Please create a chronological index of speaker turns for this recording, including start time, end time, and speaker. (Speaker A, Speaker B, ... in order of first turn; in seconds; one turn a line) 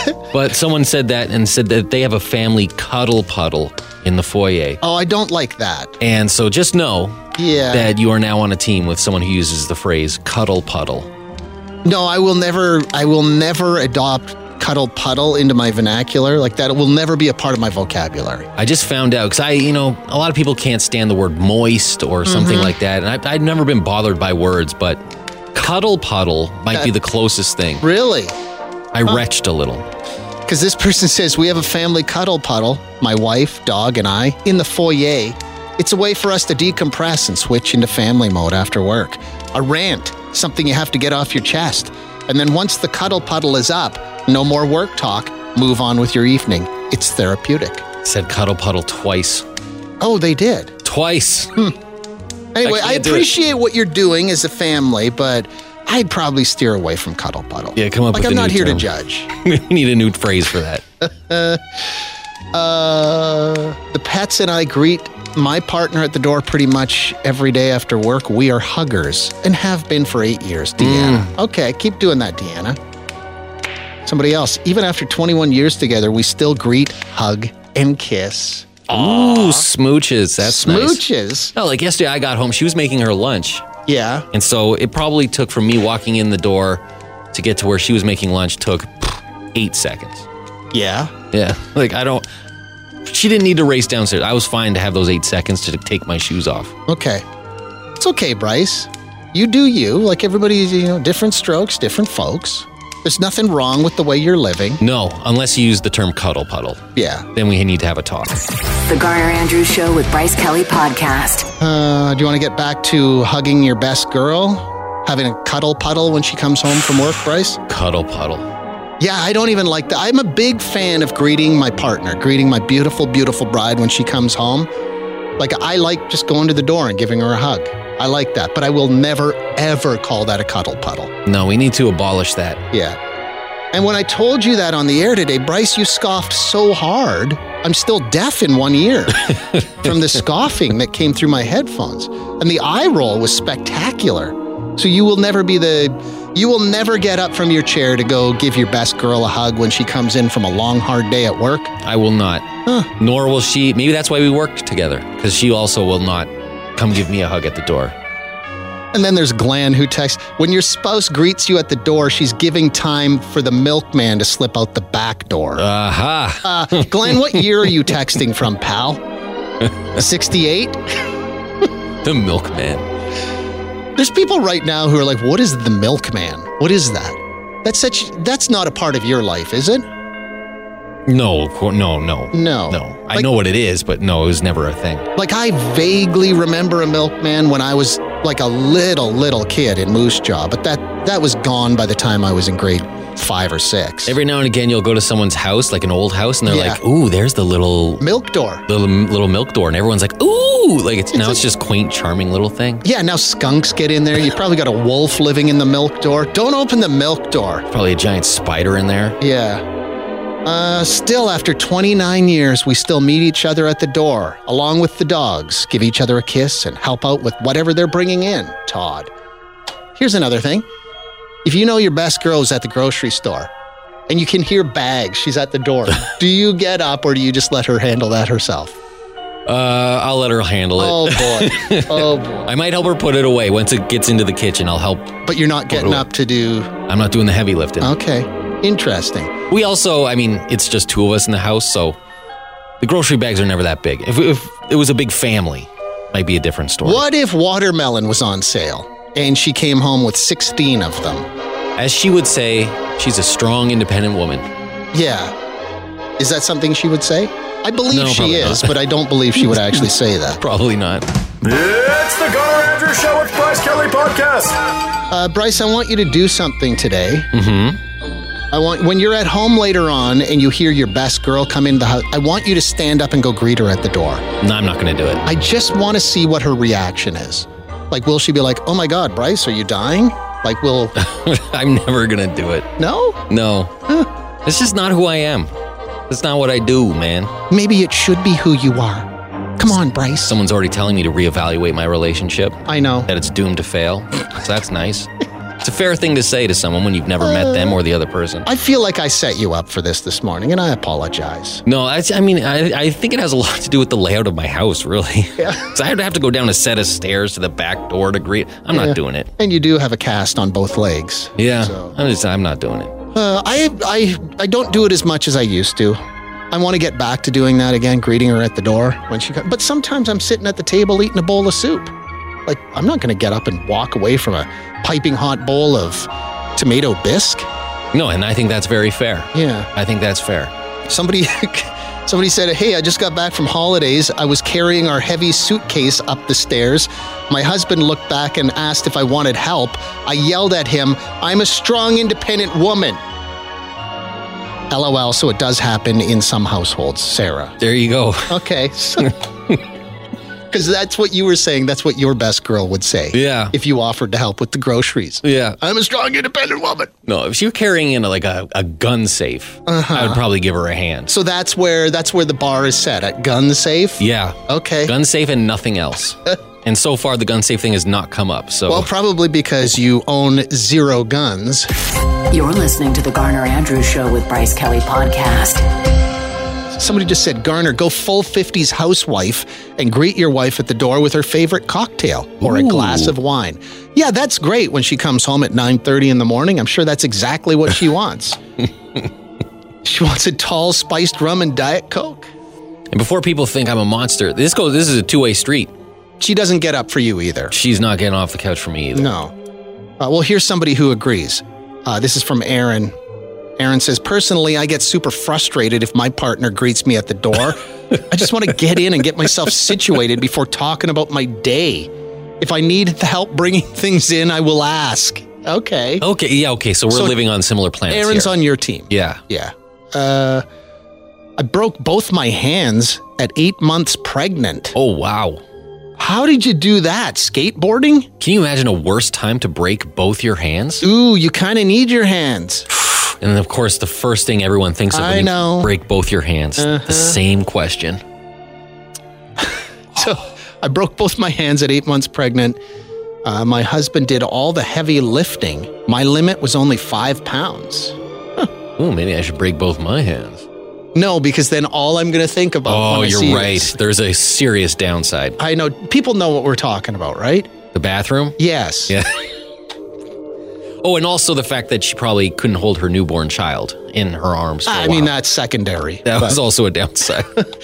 Speaker A: 0.3-4.8
Speaker B: 4.8-6.0
Speaker A: 6.0-11.1
Speaker B: 7.3-7.9
Speaker B: 11.8-18.5
Speaker A: 18.6-25.0
Speaker B: 22.2-22.7
Speaker A: 25.5-27.9
Speaker B: 27.8-28.4
Speaker A: 28.9-29.9
Speaker B: 30.5-47.8
Speaker A: 48.0-49.4
Speaker B: 50.0-50.7
Speaker A: 50.8-51.6
Speaker B: 52.5-59.3
Speaker A: 52.6-53.3
Speaker A: 57.8-60.8
Speaker B: 61.0-61.8
Speaker B: 62.5-72.8
Speaker A: 70.8-71.3
Speaker B: 74.0-79.7
Speaker A: 78.9-81.0
Speaker B: 80.4-81.5
Speaker A: 81.5-83.7
Speaker B: 83.8-84.3
Speaker A: 84.3-86.8
Speaker A: 87.3-90.3
Speaker B: 90.7-91.1
Speaker A: 91.3-92.2
Speaker A: 93.0-96.7
Speaker B: 96.9-97.2
Speaker B: 98.0-104.8
Speaker A: 104.8-106.8
Speaker B: 106.9-107.3
Speaker A: 107.3-108.4
Speaker C: 108.9-111.5
Speaker B: 111.6-117.6
Speaker A: 117.7-118.5
Speaker B: 119.0-124.7
Speaker B: 125.4-131.1
Speaker A: 131.2-132.6
Speaker B: 132.7-133.0
Speaker B: 133.7-151.7
Speaker A: 151.8-157.9
Speaker B: 158.9-165.6
Speaker A: 165.6-167.2
Speaker B: 166.4-169.0
Speaker B: 169.9-170.8
Speaker A: 172.0-172.8
Speaker B: 173.9-179.8
Speaker A: 181.1-185.1
Speaker B: 182.3-183.3
Speaker B: 185.2-194.1
Speaker A: 194.1-198.1
Speaker B: 196.5-196.8
Speaker B: 198.0-198.6
Speaker A: 198.7-202.8
Speaker B: 201.1-201.4
Speaker B: 202.8-207.7
Speaker A: 207.7-209.2
Speaker B: 209.2-209.6
Speaker B: 210.4-219.1
Speaker B: 219.9-220.6
Speaker B: 221.4-223.5
Speaker B: 224.1-228.8
Speaker A: 229.4-235.2
Speaker B: 230.8-232.5
Speaker B: 235.2-236.7
Speaker A: 235.7-236.1
Speaker A: 236.9-237.9
Speaker B: 237.8-239.3
Speaker A: 239.5-242.0
Speaker A: 242.8-247.0
Speaker B: 246.8-251.3
Speaker A: 251.8-254.5
Speaker B: 254.9-255.3
Speaker B: 256.2-260.4
Speaker A: 257.9-258.8
Speaker A: 260.4-261.1
Speaker D: 261.4-264.6
Speaker B: 265.1-267.3
Speaker A: 267.3-267.8
Speaker B: 268.5-274.2
Speaker A: 274.4-275.2
Speaker B: 275.2-280.9
Speaker A: 280.9-282.7
Speaker B: 282.8-283.2
Speaker A: 283.3-283.7
Speaker A: 284.4-285.5
Speaker A: 286.1-287.3
Speaker B: 287.5-290.4
Speaker A: 290.2-295.1
Speaker B: 292.7-293.1
Speaker A: 295.6-298.5
Speaker B: 297.2-297.8
Speaker B: 298.4-301.6
Speaker A: 301.6-309.3
Speaker B: 305.4-305.6
Speaker B: 308.7-311.9
Speaker A: 311.4-312.9
Speaker B: 313.1-316.0
Speaker B: 316.5-321.9
Speaker B: 322.4-327.5
Speaker A: 327.9-330.5
Speaker B: 329.3-329.7
Speaker B: 330.9-343.0
Speaker B: 344.7-347.6
Speaker A: 347.6-348.4
Speaker B: 348.3-349.1
Speaker A: 349.0-349.6
Speaker B: 350.5-356.9
Speaker A: 353.1-353.5
Speaker A: 355.2-355.6
Speaker A: 357.1-361.1
Speaker B: 359.7-360.2
Speaker B: 361.1-364.9
Speaker A: 364.0-368.9
Speaker B: 368.7-371.7
Speaker C: 372.3-375.6
Speaker B: 376.7-388.4
Speaker A: 382.4-383.1
Speaker B: 389.8-392.3
Speaker A: 392.9-395.7
Speaker B: 396.2-397.5
Speaker A: 397.5-399.1
Speaker B: 398.9-399.3
Speaker B: 400.0-402.9
Speaker B: 403.6-416.0
Speaker A: 416.0-418.4
Speaker B: 416.9-417.2
Speaker B: 417.9-420.4
Speaker A: 418.9-419.2
Speaker B: 421.4-424.7
Speaker A: 424.7-425.4
Speaker B: 426.0-428.1
Speaker A: 428.2-430.9
Speaker B: 430.8-432.7
Speaker A: 433.2-438.0
Speaker B: 434.9-435.7
Speaker B: 436.6-437.2
Speaker B: 439.4-442.6
Speaker B: 443.2-448.5
Speaker A: 448.8-450.4
Speaker B: 450.9-453.8
Speaker A: 452.6-455.4
Speaker B: 455.4-457.5
Speaker A: 457.7-459.1
Speaker B: 458.4-458.9
Speaker A: 460.8-465.1
Speaker B: 464.7-466.4
Speaker A: 466.0-467.4